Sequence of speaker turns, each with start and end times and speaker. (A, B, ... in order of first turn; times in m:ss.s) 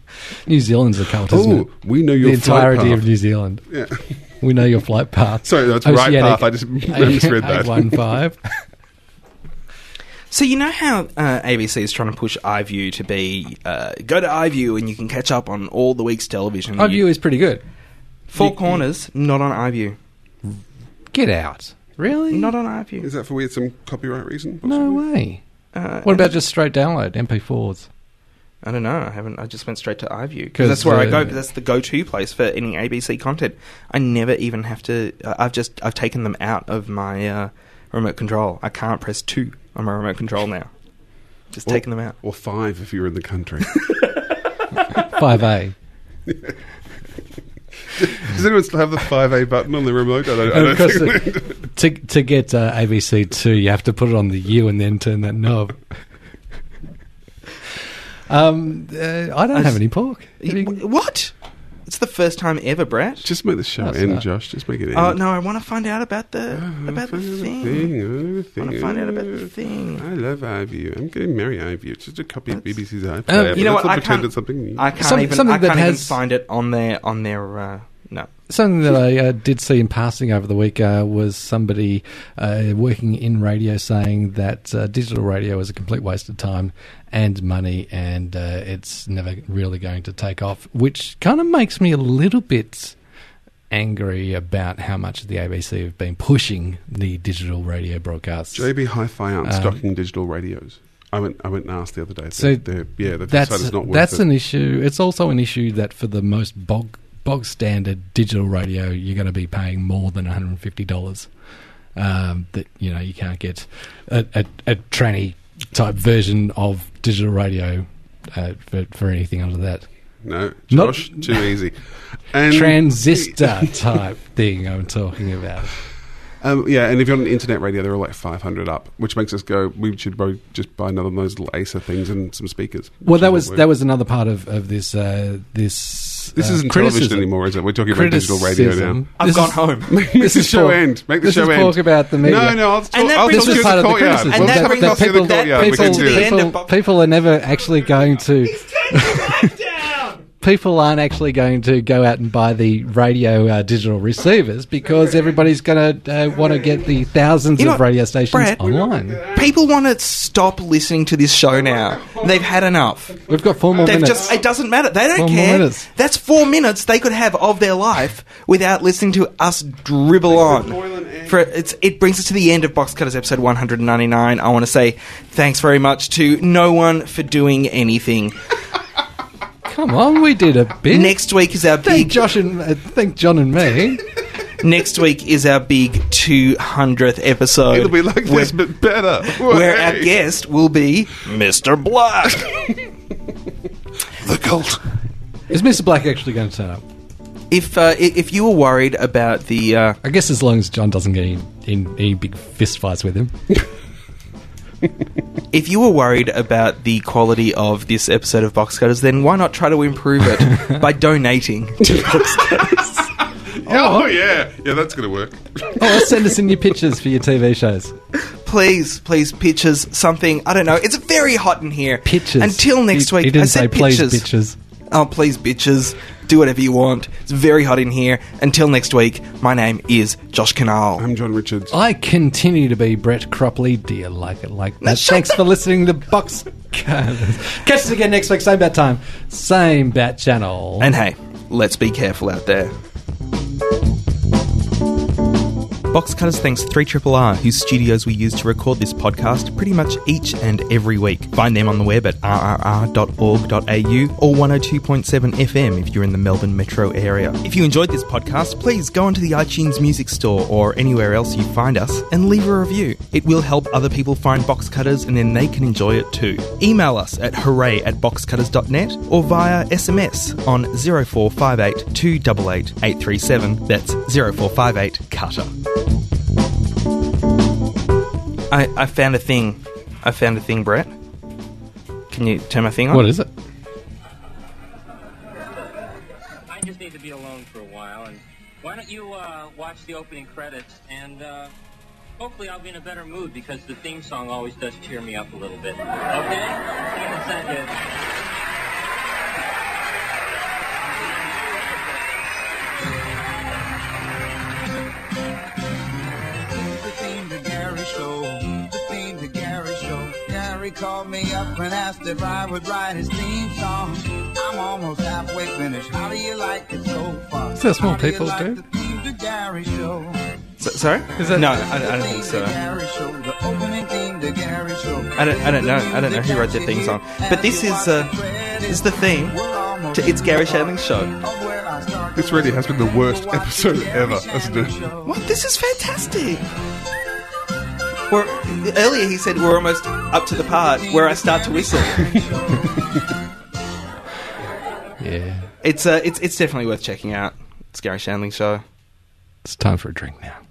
0:00.5-0:03.7 A
0:01.3-0:03.0 B
0:03.7-0:04.0 B
0:04.4-0:08.4 A
0:05.4-0:08.1 B
0:10.3-0:17.0 C
0:16.8-0:17.6 A
0:18.3-0:20.0 C
0:18.3-0:18.8 A
0:21.1-0:22.5 A
0:22.3-0:23.1 C
0:23.0-0:25.0 B
0:24.6-0:25.4 A
0:25.7-0:26.3 C
0:26.0-0:27.9 A
0:28.6-0:40.7 C
0:30.5-0:31.3 A
0:41.5-0:42.1 C
0:41.7-0:43.8 B
0:44.9-0:45.7 A
0:48.0-0:51.5 B
0:50.5-0:55.8 A
0:58.3-1:00.8 A
0:59.5-0:59.8 C
1:00.4-1:01.3 C
1:01.9-1:03.3 C
1:03.2-1:05.2 B
1:03.8-1:04.2 A
1:04.9-1:07.9 C
1:06.5-1:14.9 B
1:08.6-1:10.0 C
1:13.3-1:13.7 A
1:13.5-1:18.3 C
1:15.0-1:16.2 A
1:18.5-1:33.0 A
1:33.7-1:38.7 A
1:38.5-1:44.2 B
1:39.4-1:39.8 A
1:42.4-1:51.3 A
1:51.9-1:59.9 A
2:00.2-2:03.7 B
2:00.7-2:01.5 A
2:02.5-2:05.8 A
2:06.4-2:13.7 B
2:13.0-2:17.3 A
2:16.4-2:19.1 B
2:17.8-2:29.5 A
2:19.2-2:19.9 C
2:19.9-2:26.4 B
2:22.9-2:27.0 C
2:28.6-2:30.1 C
2:30.4-2:39.2 A
2:36.5-2:36.8 B
2:37.6-2:38.6 C
2:38.6-2:39.6 B
2:39.3-2:43.2 C
2:41.5-2:42.7 B
2:43.3-2:44.3 A
2:43.3-2:44.4 B
2:43.8-2:58.4 C
2:45.2-2:45.9 A
2:50.3-2:51.5 B
2:59.6-3:01.2 A
3:00.9-3:02.3 C
3:01.8-3:04.0 A
3:04.6-3:08.5 C
3:07.7-3:10.1 B
3:09.2-3:12.7 C
3:14.2-3:14.8 B
3:15.5-3:16.8 A
3:17.5-3:20.0 C
3:20.0-3:23.3 A
3:25.5-3:33.1 C
3:31.9-3:32.7 B
3:33.6-3:36.0 B
3:33.6-3:34.1 A
3:35.8-3:37.9 A
3:38.4-3:44.2 C
3:42.0-3:44.6 A
3:44.9-3:51.0 C
3:51.0-3:51.8 B
3:51.7-4:00.9 A
3:54.8-3:55.4 C
4:00.8-4:02.7 C
4:05.9-4:35.5 C
4:38.5-4:40.9 C
4:42.1-4:43.1 C
4:42.9-4:43.3 A
4:46.5-4:51.5 D
4:52.2-4:57.8 D
5:01.0-5:01.9 D
5:06.5-5:20.2 E
5:17.6-5:18.6 A
5:20.6-5:22.5 C
5:21.2-5:21.5 A
5:21.4-5:35.1 E
5:25.2-5:28.1 C
5:28.7-5:29.4 C
5:29.9-5:31.1 C
5:32.1-5:34.9 B
5:35.0-5:36.4 C
5:38.1-5:42.0 C
5:40.3-5:43.0 E
5:45.0-5:45.4 A
5:45.6-5:48.6 C
5:49.4-5:50.4 A